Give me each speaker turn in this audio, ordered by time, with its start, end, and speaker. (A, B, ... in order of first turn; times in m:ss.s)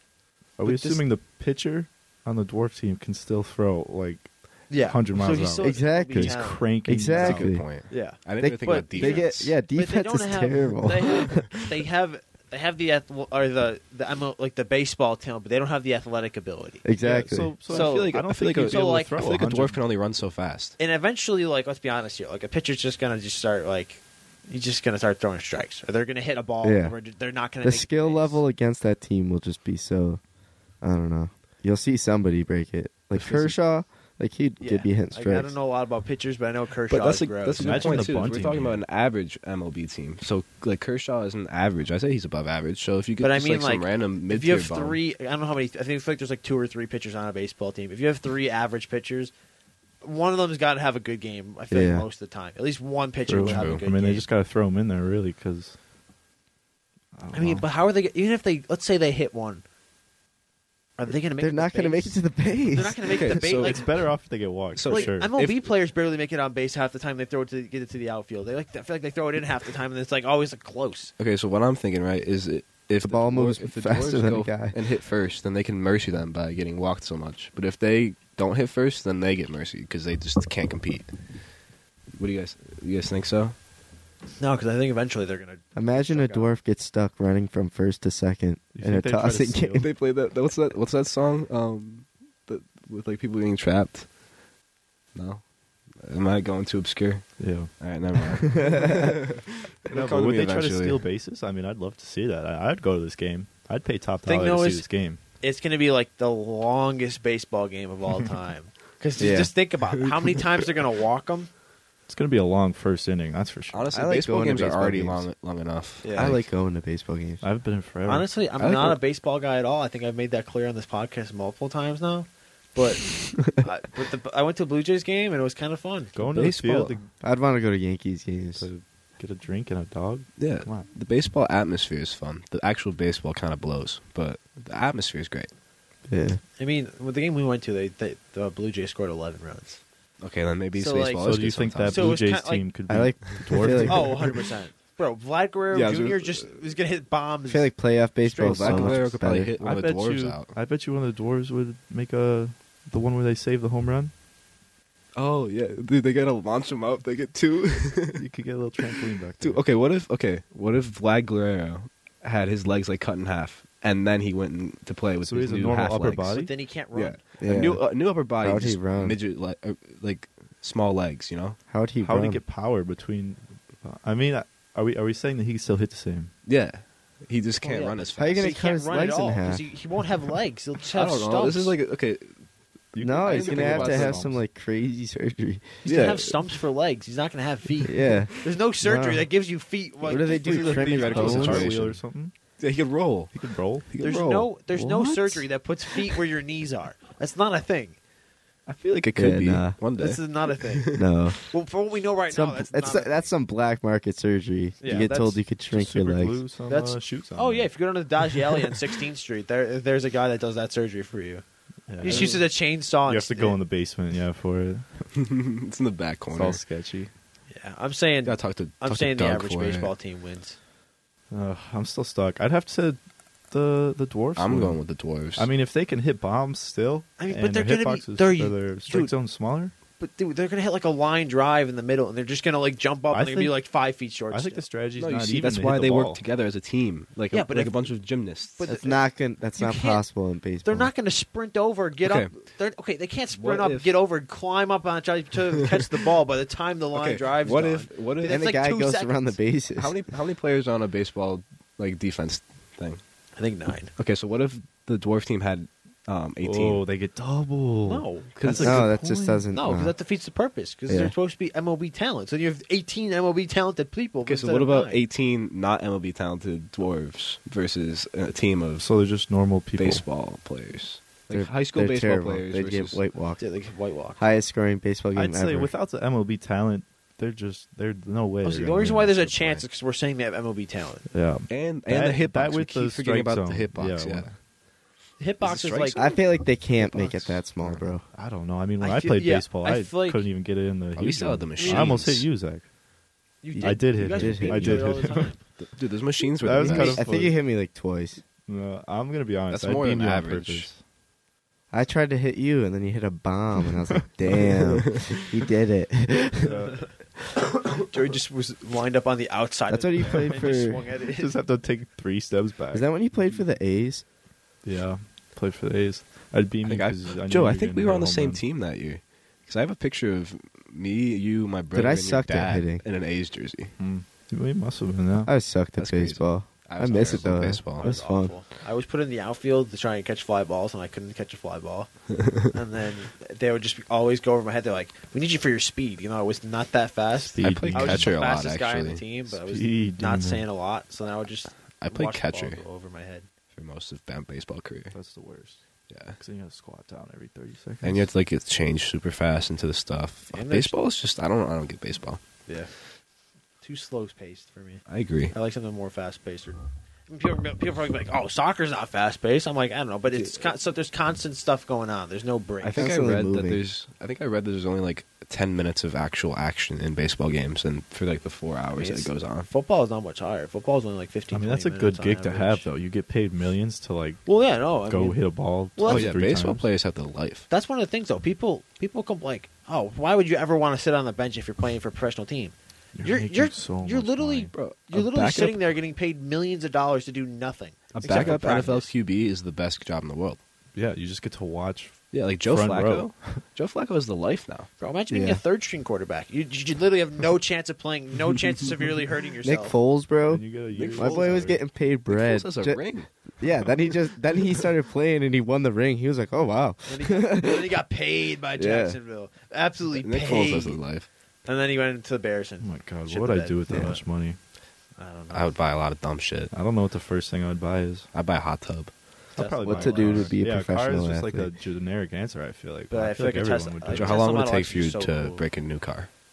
0:00.6-0:07.6 A
0:00.6-0:01.0 B
0:04.7-0:06.7 C
0:05.6-0:11.6 D
0:07.1-0:09.5 B
0:07.9-0:16.8 C
0:16.8-0:17.6 D
0:17.0-0:19.8 A
0:17.7-0:20.8 B
0:17.7-0:19.2 C
0:20.8-0:28.4 C
0:26.6-0:27.0 D
0:27.6-0:30.2 D
0:30.8-0:35.6 D
0:33.2-0:33.6 B
0:34.6-0:38.2 C
0:36.9-0:45.0 B
0:37.6-0:38.8 A
0:43.2-0:49.3 C
0:50.0-0:54.3 C
0:51.7-0:52.1 D
0:53.3-0:55.8 A
0:53.4-0:53.8 B
0:57.2-0:57.7 A
0:57.3-0:59.6 C
1:01.0-1:03.9 C
1:01.4-1:03.3 D
1:03.1-1:04.1 B
1:03.6-1:05.3 A
1:04.7-1:05.7 B
1:04.8-1:11.1 C
1:11.2-1:21.6 B
1:13.0-1:14.8 D
1:22.2-1:23.6 B
1:24.4-1:26.5 C
1:25.8-1:29.9 D
1:28.7-1:29.8 A
1:29.8-1:34.1 B
1:35.2-1:35.4 B
1:36.0-1:41.0 B
1:37.4-1:37.7 A
1:38.6-1:39.0 D
1:39.9-1:45.2 A
1:44.2-1:44.9 C
1:45.4-1:51.5 C
1:49.2-1:49.5 D
1:50.0-1:50.7 B
1:52.1-1:54.0 A
1:53.7-1:56.4 B
1:53.9-1:55.3 D
1:56.0-1:56.4 C
1:56.1-1:57.4 D
1:57.4-1:58.3 A
1:58.0-2:06.3 C
1:58.6-1:59.0 B
2:06.2-2:07.1 A
2:06.3-2:07.0 B
2:07.2-2:08.7 D
2:08.6-2:10.9 A
2:10.4-2:15.5 B
2:16.1-2:16.4 D
2:16.6-2:19.8 C
2:20.2-2:22.2 B
2:20.8-2:22.7 C
2:21.2-2:24.2 A
2:22.9-2:24.4 D
2:23.4-2:23.8 B
2:23.9-2:29.0 C
2:25.7-2:26.6 B
2:27.5-2:29.5 D
2:28.4-2:30.6 B
2:29.6-2:34.1 A
2:35.2-2:38.3 B
2:38.2-2:39.6 A
2:38.9-2:51.6 B
2:45.2-2:46.5 A
2:46.3-2:47.2 C
2:47.4-2:49.2 D
2:51.7-2:52.4 D
2:52.0-2:56.3 A
2:56.4-2:58.6 B
2:57.6-3:01.8 C
2:58.2-2:59.6 D
3:00.9-3:02.4 B
3:02.9-3:04.3 B
3:03.0-3:04.4 A
3:03.0-3:05.9 D
3:05.8-3:11.7 C
3:05.8-3:06.4 B
3:07.8-3:09.3 D
3:10.0-3:11.8 D
3:10.4-3:12.0 B
3:10.8-3:12.3 A
3:12.6-3:14.5 B
3:13.3-3:13.9 A
3:14.0-3:18.0 C
3:14.7-3:15.5 D
3:18.7-3:21.1 B
3:19.2-3:19.8 D
3:20.0-3:23.3 C
3:21.0-3:21.4 D
3:22.3-3:26.4 D
3:24.8-3:25.4 C
3:24.8-3:25.1 A
3:25.7-3:27.7 A
3:26.7-3:31.4 C
3:31.9-3:32.5 A
3:32.0-3:33.6 C
3:32.0-3:32.5 B
3:33.0-3:35.1 A
3:35.2-3:36.6 B
3:36.3-3:37.1 A
3:37.5-3:40.6 C
3:38.2-3:39.9 B
3:41.3-3:49.7 A
3:44.4-3:45.5 B
3:47.2-3:49.1 C
3:50.0-3:54.6 C
3:53.1-3:56.2 A
3:55.0-3:58.6 B
3:57.3-4:09.4 C
3:58.7-4:00.9 D
4:02.0-4:02.4 B
4:03.3-4:03.9 B
4:06.9-4:08.4 B
4:08.3-4:10.0 D
4:09.8-4:13.0 B
4:13.4-4:13.9 C
4:14.0-4:16.8 B
4:16.4-4:19.5 A
4:17.9-4:18.4 C
4:18.4-4:18.9 B
4:18.6-4:20.0 D
4:19.5-4:25.0 C
4:20.9-4:21.1 D
4:24.2-4:28.9 B
4:28.8-4:30.0 A
4:29.8-4:33.0 B
4:31.3-4:33.6 D
4:33.4-4:34.2 C
4:34.2-4:35.7 D
4:35.2-4:39.1 A
4:38.4-4:41.1 C
4:38.9-4:39.6 B
4:41.1-4:44.4 A
4:41.5-4:44.3 B
4:45.2-4:46.1 C
4:45.4-4:46.1 B
4:45.9-4:48.1 D
4:46.8-4:47.4 A
4:47.6-4:47.8 B
4:48.1-4:52.7 A
4:48.8-4:50.3 C
4:51.0-4:52.3 B
4:51.6-4:52.0 C
4:53.4-4:55.4 C
4:53.6-4:55.2 D
4:53.6-4:55.3 A
4:55.6-4:57.0 B
4:56.4-4:57.4 A
4:56.5-4:58.2 D
4:58.5-5:00.8 A
4:59.5-5:00.7 B
5:01.7-5:06.8 D
5:04.9-5:05.2 B
5:06.4-5:06.9 A
5:07.9-5:11.4 C
5:09.7-5:10.8 D
5:11.1-5:13.4 A
5:12.7-5:14.0 D
5:14.6-5:18.4 A
5:16.6-5:23.8 B
5:21.7-5:22.8 D
5:23.8-5:25.3 A
5:25.2-5:28.4 D
5:25.8-5:27.9 B
5:26.9-5:43.3 C
5:37.3-5:38.2 A
5:37.4-5:39.0 B
5:39.4-5:40.5 A
5:41.8-5:42.6 B
5:43.5-5:45.0 B
5:44.9-5:45.6 A
5:45.9-5:46.2 B
5:46.2-5:48.1 A
5:47.8-5:52.2 B
5:50.3-5:50.8 C
5:52.5-5:52.7 C
5:53.6-6:02.9 C
5:54.9-5:55.3 B
6:02.6-6:09.5 B
6:02.8-6:03.6 D
6:08.7-6:12.7 C
6:11.3-6:16.7 A
6:14.2-6:16.1 C
6:15.9-6:17.5 B
6:17.5-6:28.9 C
6:23.0-6:24.5 A
6:24.5-6:25.6 B
6:27.9-6:30.4 B
6:28.0-6:28.4 A
6:30.7-6:33.4 A
6:32.1-6:34.7 B
6:34.8-6:39.8 C
6:35.1-6:35.4 D
6:39.4-6:47.8 D
6:40.3-6:41.6 A
6:40.7-6:41.6 B
6:42.1-6:43.5 B
6:46.9-6:50.8 C
6:48.6-6:49.0 D
6:49.9-6:51.1 B
6:51.4-6:54.0 C
6:52.6-6:54.4 A
6:53.7-6:54.0 D
6:55.0-6:55.5 C
6:55.3-6:56.5 B
6:56.5-6:58.1 A
6:58.1-6:58.9 B
6:59.4-7:04.3 A
6:59.4-7:00.4 C
6:59.6-7:01.5 D
7:02.9-7:05.5 C
7:03.9-7:06.1 B